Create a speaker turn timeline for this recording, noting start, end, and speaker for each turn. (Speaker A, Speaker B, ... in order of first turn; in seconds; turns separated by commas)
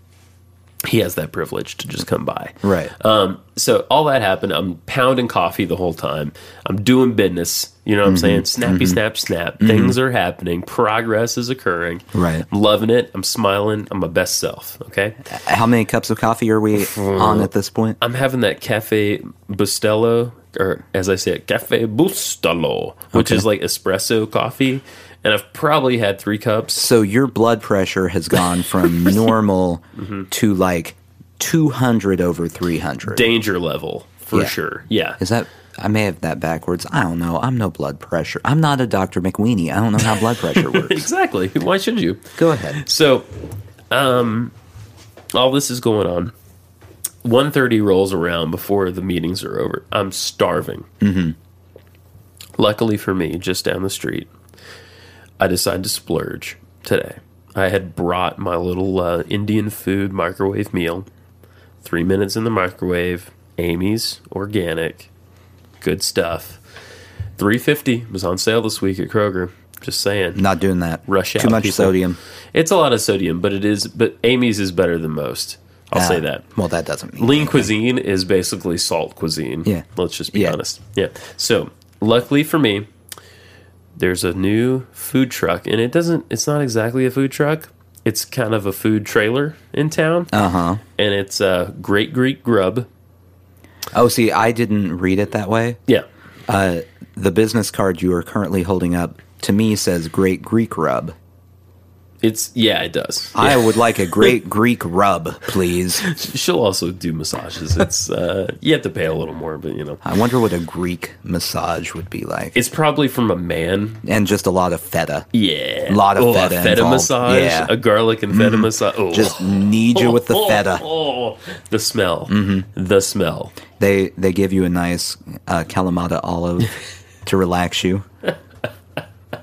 Speaker A: 0.8-15.2, Speaker B: 2.6-2.9, Speaker B: 8.0-9.0, Speaker B: 9.6-9.9, Speaker B: 12.1-12.4, Speaker B: 15.3-18.0, Speaker A: 16.8-26.8, Speaker B: 23.1-23.4, Speaker B: 26.7-33.3, Speaker A: 30.0-30.3, Speaker A: 33.1-35.2, Speaker B: 35.2-41.1, Speaker A: 40.5-43.3, Speaker B: 42.4-42.8, Speaker A: 43.9-44.5, Speaker A: 45.3-46.3, Speaker A: 47.2-50.9, Speaker B: 51.0-51.4, Speaker A: 52.6-54.3, Speaker A: 55.4-61.1, Speaker A: 61.8-65.1, Speaker A: 65.8-66.6, Speaker A: 67.4-70.4, Speaker B: 70.3-72.2, Speaker A: 71.1-72.0, Speaker A: 72.5-76.4, Speaker B: 75.9-77.7, Speaker A: 77.2-82.9, Speaker B: 79.6-80.6, Speaker A: 84.0-90.3, Speaker B: 90.3-90.8, Speaker A: 91.0-92.9, Speaker B: 93.9-95.8, Speaker B: 96.5-101.1, Speaker A: 102.2-104.3, Speaker B: 103.3-106.0, Speaker A: 106.0-110.0, Speaker B: 110.0-112.5, Speaker A: 112.5-114.0, Speaker B: 114.0-115.3, Speaker A: 115.3-119.4, Speaker B: 115.9-117.7, Speaker B: 118.3-120.8, Speaker A: 119.9-123.5, Speaker B: 122.3-122.7, Speaker B: 123.8-126.7, Speaker B: 127.2-128.0